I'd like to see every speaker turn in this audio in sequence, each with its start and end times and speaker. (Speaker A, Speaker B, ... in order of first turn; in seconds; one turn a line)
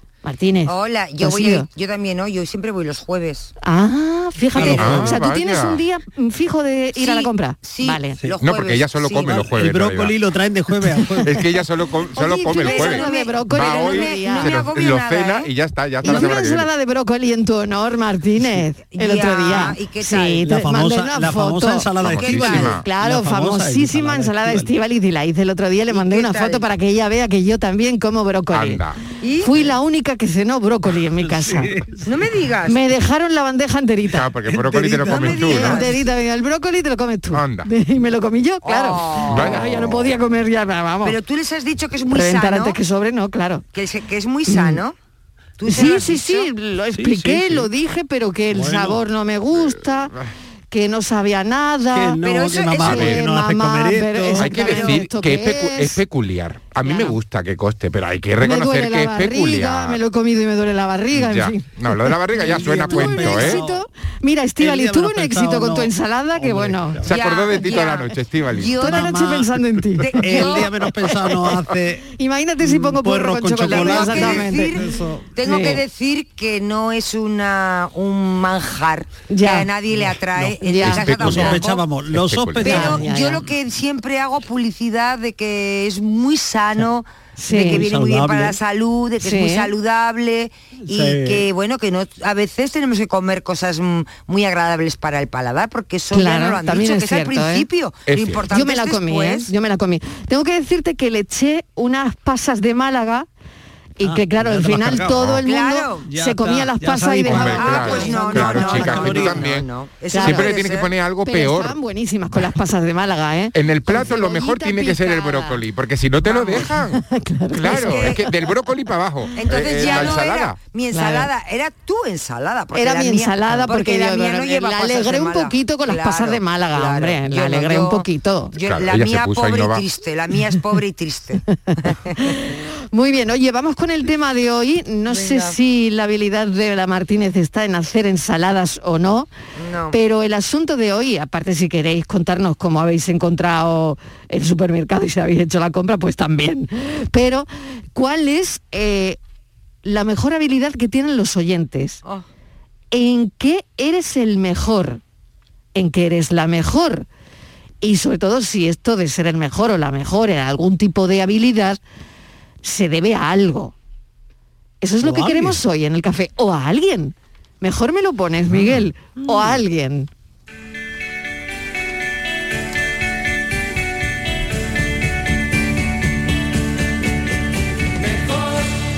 Speaker A: 0.2-1.7
Speaker B: 0.7-3.5
Speaker A: 3.6-8.2
Speaker C: 4.5-5.2
Speaker D: 4.6-5.8
Speaker B: 7.0-9.2
Speaker D: 8.4-10.2
Speaker C: 9.0-11.5
Speaker D: 11.2-16.7
Speaker A: 12.2-14.5
Speaker B: 12.6-15.5
Speaker A: 16.0-28.8
Speaker B: 18.9-20.5
Speaker C: 20.4-24.7
Speaker D: 22.0-22.9
Speaker B: 22.1-22.6
Speaker B: 25.9-26.6
Speaker D: 28.5-29.0
Speaker B: 29.2-29.7
Speaker A: 29.4-31.7
Speaker C: 31.2-32.1
Speaker B: 32.0-32.9
Speaker A: 32.7-34.3
Speaker D: 34.1-35.9
Speaker C: 34.5-35.7
Speaker B: 35.1-36.0
Speaker A: 35.3-41.2
Speaker D: 37.3-37.7
Speaker B: 38.6-39.9
Speaker D: 39.3-39.8
Speaker B: 41.0-42.8
Speaker A: 42.1-43.6
Speaker B: 43.7-45.0
Speaker A: 44.5-44.8
Speaker B: 45.6-46.5
Speaker A: 45.7-50.1
Speaker C: 46.9-47.7
Speaker C: 48.5-49.0
Speaker D: 49.5-50.3
Speaker A: 50.7-52.2
Speaker C: 51.9-55.0
Speaker B: 52.2-53.2
Speaker A: 52.8-56.0
Speaker D: 52.8-53.2
Speaker D: 54.4-60.0
Speaker B: 54.4-55.0
Speaker A: 56.8-57.2
Speaker A: 58.4-67.0
Speaker D: 61.1-63.6
Speaker C: 62.3-63.8
Speaker C: 64.6-67.2
Speaker D: 67.0-68.8
Speaker B: 67.1-69.2
Speaker A: 68.8-70.7
Speaker C: 68.8-69.5
Speaker B: 70.0-71.3
Speaker C: 70.2-72.1
Speaker A: 72.1-74.8
Speaker C: 72.6-75.8
Speaker B: 73.7-81.8
Speaker A: 75.5-75.8
Speaker A: 79.3-79.7
Speaker C: 80.0-83.1
Speaker A: 80.6-81.1
Speaker D: 80.8-82.8
Speaker B: 82.6-99.5
Speaker A: 82.7-83.4
Speaker A: 87.4-87.8
Speaker C: 87.6-88.6
Speaker A: 89.2-89.7
Speaker C: 90.9-91.5
Speaker A: 96.1-97.7
Speaker D: 98.1-98.5
Speaker A: 98.5-103.3
Speaker A: 104.0-108.4
Speaker C: 104.0-105.4
Speaker D: 105.1-105.4
Speaker B: 105.4-106.1
Speaker C: 106.0-109.5
Speaker D: 107.3-109.7
Speaker B: 107.3-110.9
Speaker A: 110.1-110.5
Speaker D: 110.2-111.8
Speaker A: 111.2-115.6
Speaker D: 113.5-117.0
Speaker B: 116.3-116.7
Speaker A: 116.5-118.3
Speaker D: 117.5-120.6
Speaker B: 117.7-118.2
Speaker B: 119.4-132.2
Speaker A: 120.9-121.3
Speaker A: 122.7-128.6
Speaker D: 128.7-129.8
Speaker A: 131.9-139.3
Speaker B: 135.1-135.5
Speaker B: 139.6-139.9
Speaker A: 139.9-149.2
Speaker A: 149.8-152.0
Speaker A: 152.9-155.0
Speaker A: 155.8-157.1
Speaker A: 157.8-161.8
Speaker A: 162.6-163.7
Speaker A: 164.8-170.1
Speaker C: 165.0-165.6